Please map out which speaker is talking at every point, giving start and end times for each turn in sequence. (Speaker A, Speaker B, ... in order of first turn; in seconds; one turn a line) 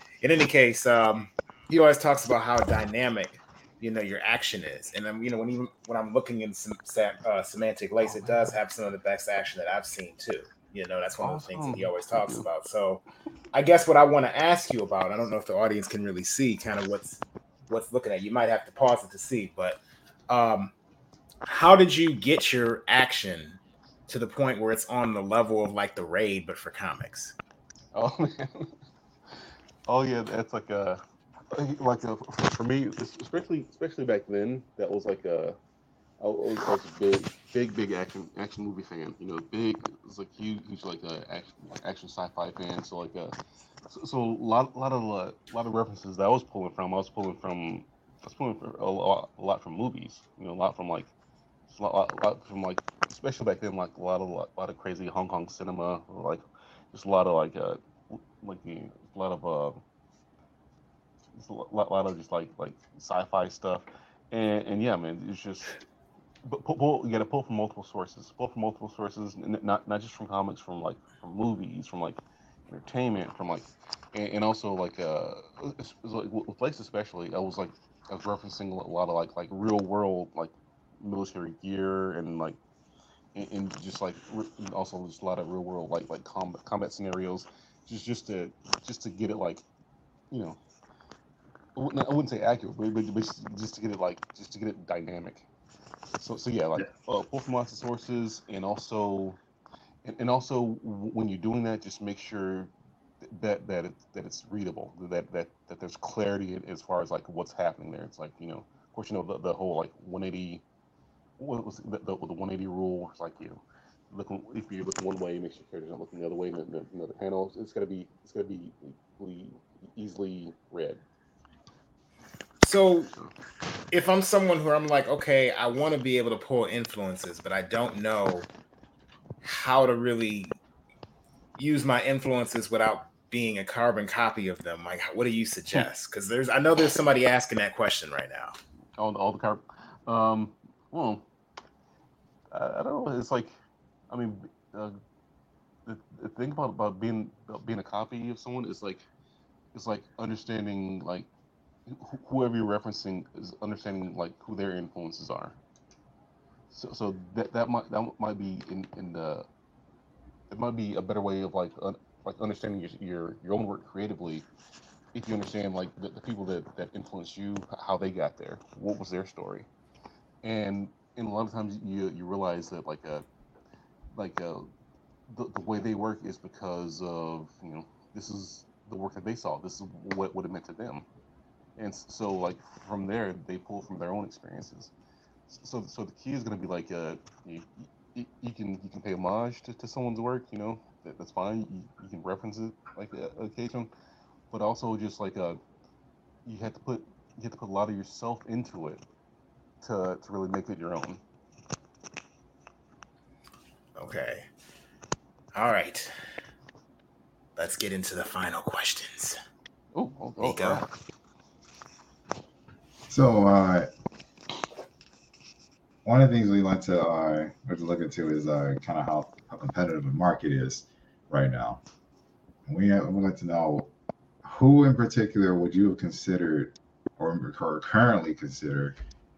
Speaker A: 0.2-20.7
Speaker B: 8.0-8.6
Speaker B: 11.2-12.5
Speaker A: 21.4-27.4
Speaker B: 27.9-28.7
Speaker B: 29.3-35.6
Speaker B: 36.2-43.4
Speaker B: 43.9-51.1
Speaker B: 51.7-59.8
Speaker B: 61.3-65.8
Speaker B: 66.4-82.6
Speaker B: 83.3-89.6
Speaker B: 90.3-90.6
Speaker B: 91.8-95.5
Speaker B: 96.2-99.4
Speaker B: 100.0-110.6
Speaker B: 111.4-121.0
Speaker A: 122.6-123.1
Speaker A: 123.9-128.5
Speaker A: 129.4-130.6
Speaker A: 131.6-138.6
Speaker B: 139.0-141.2
Speaker B: 142.5-143.5
Speaker B: 144.1-145.0
Speaker B: 145.8-149.0
Speaker B: 149.7-151.3
Speaker B: 151.8-155.6
Speaker B: 156.7-159.5
Speaker B: 160.5-164.4
Speaker B: 165.1-169.7
Speaker B: 170.4-173.2
Speaker B: 174.1-174.7
Speaker B: 175.3-181.1
Speaker B: 181.8-184.9
Speaker B: 185.5-193.9
Speaker B: 194.5-195.6
Speaker B: 196.4-199.0
Speaker B: 199.8-201.2
Speaker A: 203.9-204.4
Speaker A: 205.5-206.1
Speaker A: 207.6-209.4
Speaker B: 209.9-210.9
Speaker A: 210.4-210.8
Speaker C: 213.1-213.9
Speaker C: 216.0-221.8
Speaker C: 222.7-223.9
Speaker C: 224.4-228.9